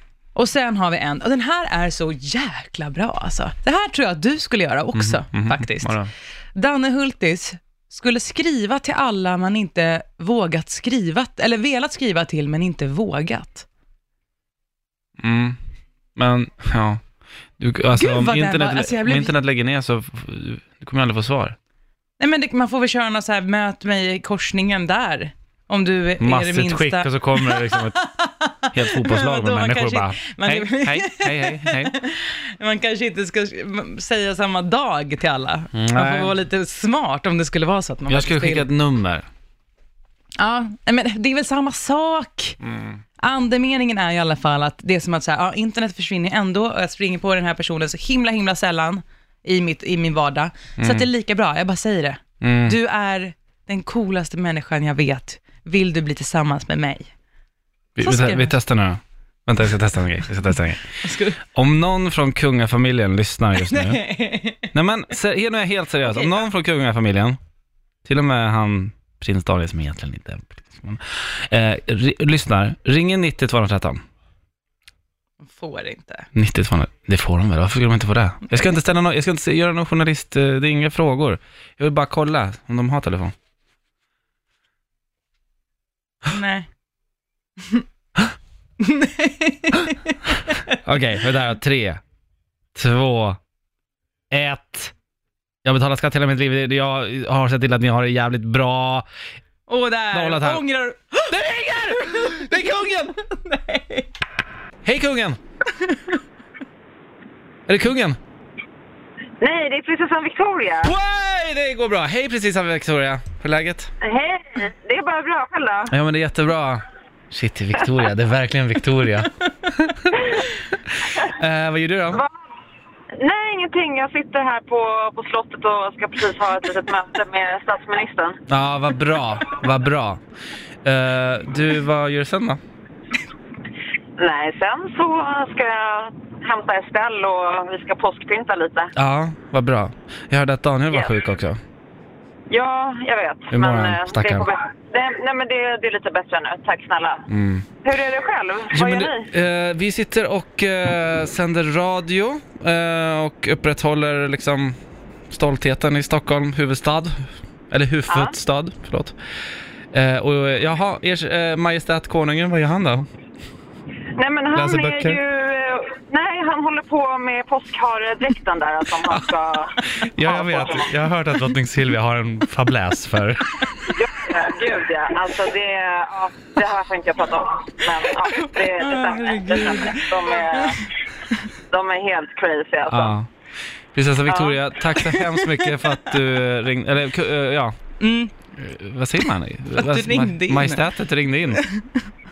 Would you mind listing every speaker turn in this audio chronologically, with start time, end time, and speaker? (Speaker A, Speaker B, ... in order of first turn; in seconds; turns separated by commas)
Speaker A: 0.3-6.0, Speaker B: 4.9-6.1, Speaker A: 6.5-13.7, Speaker B: 15.2-15.6, Speaker B: 16.1-17.0, Speaker B: 17.6-21.5, Speaker A: 17.9-19.3, Speaker A: 22.2-38.7, Speaker B: 26.2-28.0, Speaker B: 28.7-31.9, Speaker B: 35.7-36.3, Speaker B: 38.1-39.3, Speaker A: 40.4-42.6, Speaker B: 42.6-43.0, Speaker A: 43.2-57.1, Speaker B: 50.8-51.1, Speaker B: 52.4-52.8, Speaker B: 58.0-64.0, Speaker A: 58.0-58.6, Speaker A: 61.0-61.4, Speaker A: 63.6-64.7, Speaker B: 64.7-67.4, Speaker A: 66.1-66.5, Speaker B: 68.0-74.0, Speaker A: 75.4-76.3, Speaker B: 76.3-83.3, Speaker A: 86.2-86.7, Speaker A: 88.8-90.6, Speaker B: 90.8-92.0, Speaker B: 92.8-93.4, Speaker B: 94.3-94.9, Speaker B: 95.6-99.1, Speaker A: 99.7-104.1, Speaker B: 100.1-100.6, Speaker B: 101.3-103.1, Speaker B: 104.8-105.4, Speaker A: 105.7-106.1, Speaker B: 107.7-108.2, Speaker C: 109.4-110.9, Speaker B: 110.8-113.9, Speaker C: 114.0-115.9, Speaker B: 115.9-122.2, Speaker C: 123.2-128.4, Speaker B: 128.5-130.2, Speaker B: 130.8-132.6, Speaker C: 134.2-138.9, Speaker B: 138.9-141.6, Speaker C: 142.5-147.2, Speaker B: 143.5-144.5, Speaker B: 147.3-147.7, Speaker C: 147.8-149.3, Speaker B: 148.7-154.8, Speaker B: 155.3-159.1, Speaker C: 158.1-158.3, Speaker B: 159.9-163.1, Speaker C: 164.2-170.9, Speaker B: 164.5-165.2, Speaker B: 169.8-174.0, Speaker C: 173.8-180.8, Speaker A: 178.3-181.3, Speaker C: 181.7-183.1, Speaker B: 182.9-183.3, Speaker B: 183.9-187.7, Speaker C: 184.3-184.6, Speaker A: 184.9-186.0, Speaker A: 188.0-188.3, Speaker B: 188.5-191.6, Speaker A: 189.8-190.8, Speaker A: 191.5-191.9